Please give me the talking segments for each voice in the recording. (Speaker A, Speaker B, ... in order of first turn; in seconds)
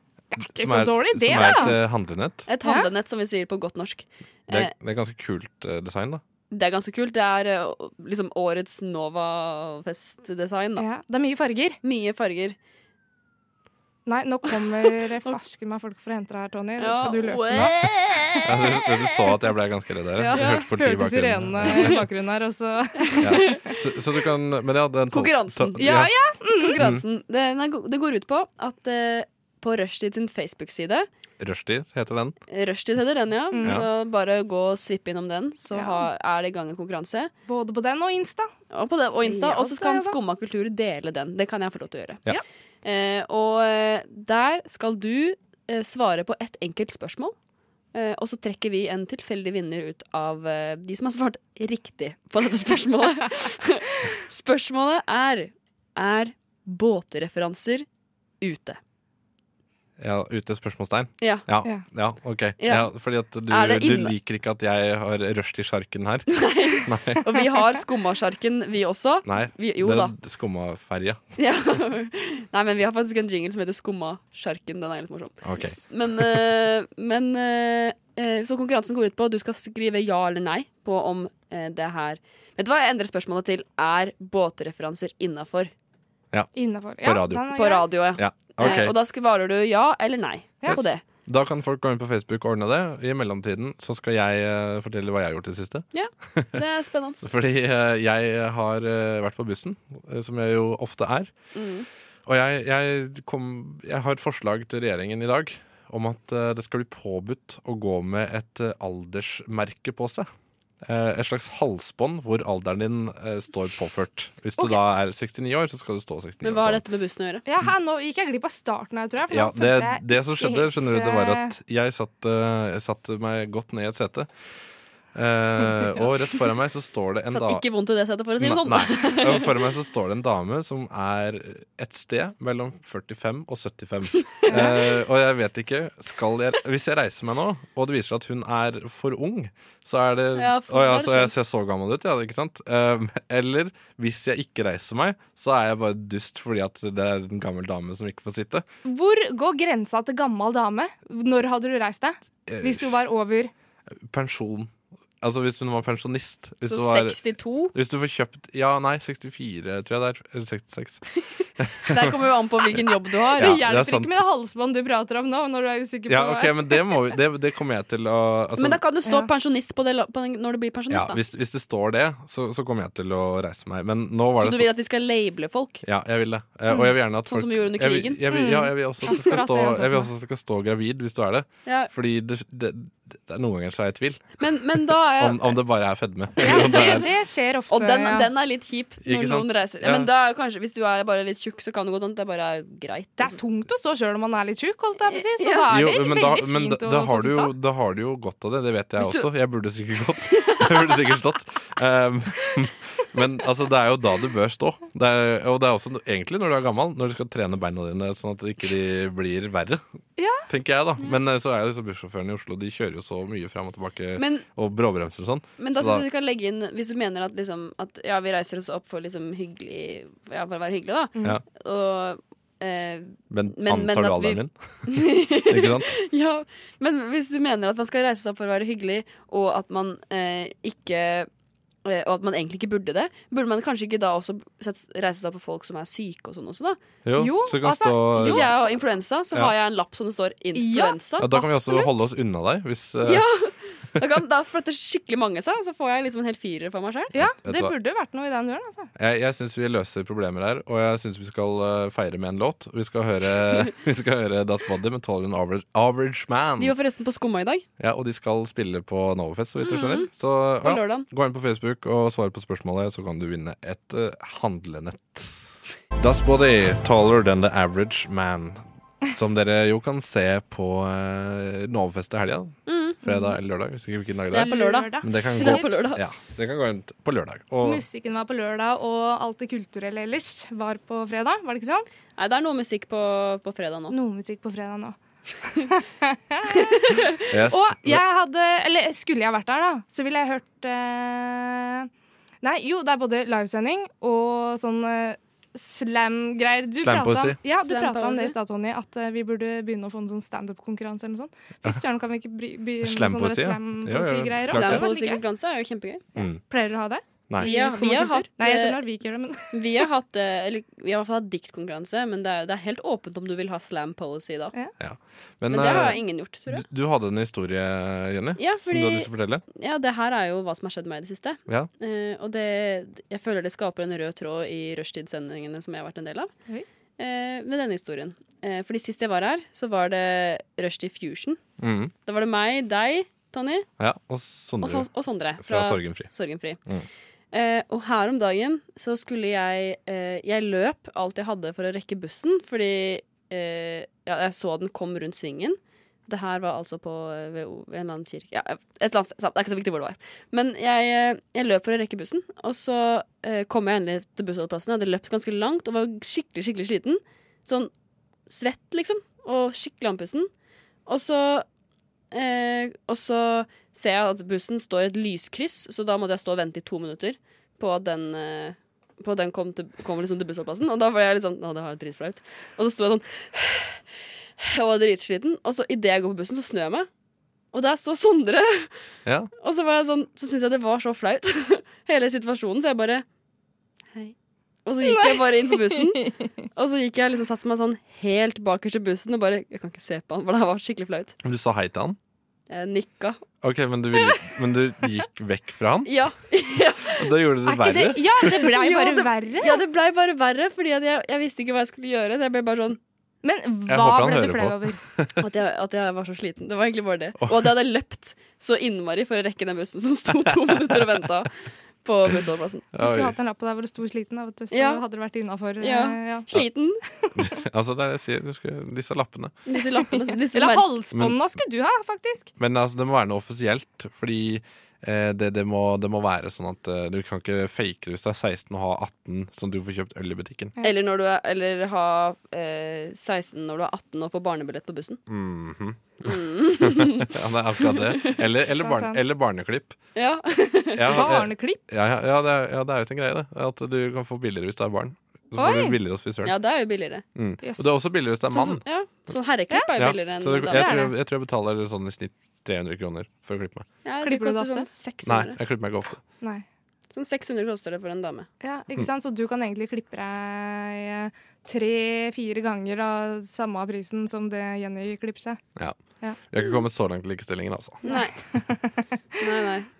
Speaker A: 0.3-1.8, 2.6-2.9, 10.8-11.8, 14.1-17.7, 20.3-23.5, 25.8-26.8, 33.5-33.9, 35.7-36.1, 37.5-38.5, 39.2-40.1, 86.5-87.8, 117.5-121.5, 134.5-134.8, 148.8-153.5, 163.3-167.1, 178.3-180.1, 186.4-188.3, 193.2-197.5, 210.2-210.5, 237.1-238.6, 240.5-242.0, 247.1-248.9, 274.3-275.8, 277.6-281.9, 283.9-291.9, 292.4-305.2, 306.2-309.8, 384.8-386.3, 393.9-394.2, 397.4-399.6, 403.2-404.8, 412.7-416.3, 417.0-417.3, 419.9-422.3, 438.6-439.0, 440.9-441.6, 445.4-445.8, 447.4-447.7, 450.5-450.9, 454.0-454.7, 458.4-465.4, 467.9-468.8
Speaker B: 0.4-2.4, 4.5-6.2, 18.4-22.0, 23.2-26.1, 26.8-27.0, 31.4-32.4, 60.0-67.5, 69.2-71.2, 75.4-76.4, 87.0-87.5, 88.2-88.9, 90.7-96.6, 97.2-101.3, 102.2-110.3, 110.8-116.8, 119.3-124.3, 125.1-127.6, 128.4-148.6, 152.5-152.9, 154.1-161.0, 161.6-162.1, 163.3-164.1, 166.1-168.8, 170.9-174.7, 175.8-184.3, 185.2-187.1, 189.0-190.1, 195.7-209.8, 210.5-216.0, 223.3-225.9, 237.0-238.5, 241.2-243.2, 247.2-247.7, 248.9-256.8, 257.8-265.4, 266.0-277.8, 287.3-288.0, 296.8-297.4, 302.8-304.9, 306.1-306.4, 314.8-319.4, 331.6-331.9, 333.8-336.1, 391.2-392.0, 393.4-395.9, 396.9-398.4, 403.7-405.2, 407.2-407.5, 410.5-411.0, 412.7-413.1, 417.1-419.3, 422.4-430.5, 435.1-439.8, 440.7-446.3, 447.1-448.6, 449.8-453.7, 455.0-456.0, 465.6-467.8
Speaker C: 1.4-1.8, 2.5-4.7, 6.5-10.8, 11.8-12.6, 14.6-15.4, 16.8-19.2, 20.1-20.6, 21.7-21.9, 23.0-23.6, 25.1-25.9, 26.5-31.1, 32.5-37.3, 38.7-42.2, 42.8-47.3, 47.9-57.9, 58.4-58.8, 62.6-62.9, 63.5-64.1, 66.3-70.1, 71.4-85.7, 87.5-91.0, 95.9-97.3, 101.5-101.9, 116.4-117.4, 127.3-129.5, 140.3-141.3, 156.6-157.7, 161.8-163.6, 168.6-171.2, 174.4-175.8, 177.2-178.2, 181.7-181.9, 184.4-185.6, 186.4-186.9, 187.7-193.4, 195.1-195.7, 199.0-199.2, 200.3-201.0, 214.2-214.4, 215.6-231.3, 231.8-236.8, 238.2-241.3, 243.0-247.1, 256.6-257.6, 259.6-260.1, 260.6-261.1, 272.7-273.0, 274.3-276.0, 282.2-283.9, 286.6-287.1, 297.6-298.4, 304.5-306.0, 307.4-308.8, 309.5-314.5, 315.5-316.6, 318.4-326.3, 327.0-331.4, 332.1-333.7, 334.6-336.6, 337.3-357.7, 358.3-360.3, 360.9-361.4, 362.1-373.9, 374.4-376.9, 377.5-378.8, 379.4-383.0, 384.6-391.1, 392.5-393.2, 395.8-397.1, 398.4-402.8, 405.2-411.3, 411.8-412.6, 414.5-414.8, 415.6-416.8, 419.5-420.7, 430.6-435.0, 436.0-438.2, 439.9-441.1, 446.2-447.0, 448.3-450.9, 453.8-455.4, 456.9-458.3, 467.8-468.2, 469.2-469.7